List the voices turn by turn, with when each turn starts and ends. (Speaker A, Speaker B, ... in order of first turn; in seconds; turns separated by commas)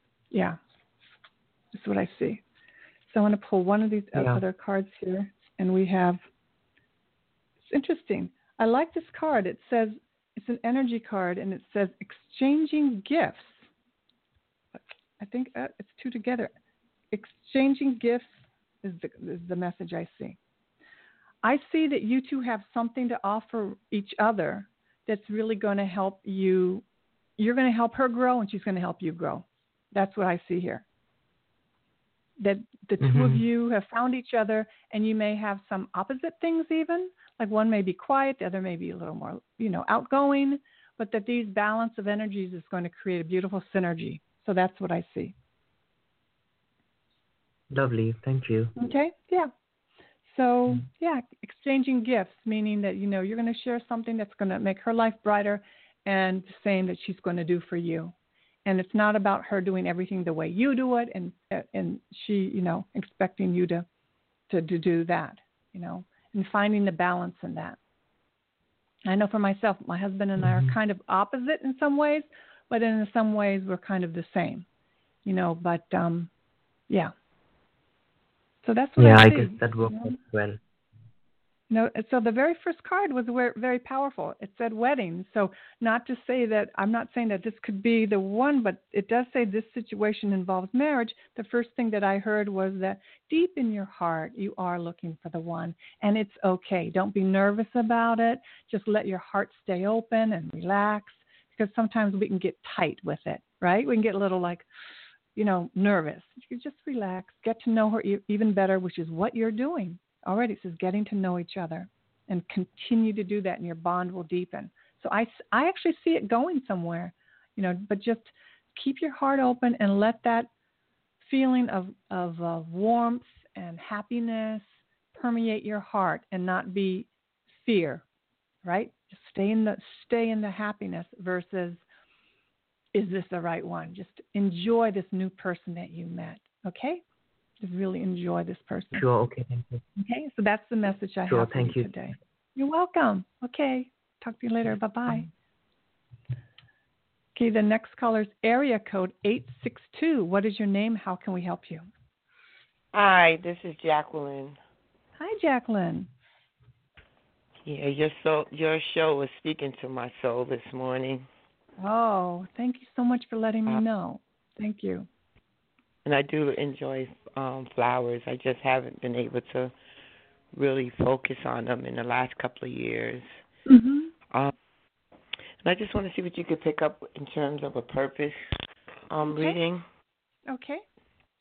Speaker A: 0.3-0.6, Speaker A: 1.7-2.4, Speaker A: 3.1-6.2, Speaker B: 4.2-4.4, Speaker A: 7.7-13.7, Speaker A: 15.2-16.5, Speaker A: 17.1-20.4, Speaker A: 21.4-26.8, Speaker A: 27.4-30.8, Speaker A: 32.4-45.3, Speaker B: 33.0-33.5, Speaker B: 47.7-48.8, Speaker A: 48.8-49.5, Speaker A: 50.3-58.1, Speaker A: 58.6-63.9, Speaker A: 64.5-67.8, Speaker A: 69.1-74.7, Speaker B: 70.4-70.8, Speaker A: 75.2-76.3, Speaker A: 78.7-80.2, Speaker B: 79.0-80.6, Speaker A: 81.7-104.7, Speaker A: 105.4-120.5, Speaker A: 121.2-128.0, Speaker A: 128.6-131.8, Speaker A: 132.9-137.0, Speaker A: 137.6-139.1, Speaker B: 138.9-139.8, Speaker A: 140.0-145.3, Speaker B: 141.3-141.9, Speaker A: 147.4-151.9, Speaker C: 152.9-154.6, Speaker A: 155.2-156.1, Speaker C: 157.7-161.3, Speaker A: 161.8-165.1, Speaker C: 166.1-169.7, Speaker C: 170.5-173.3, Speaker A: 173.7-174.1, Speaker C: 175.6-178.4, Speaker C: 179.1-179.8, Speaker A: 179.3-179.6, Speaker A: 180.5-180.8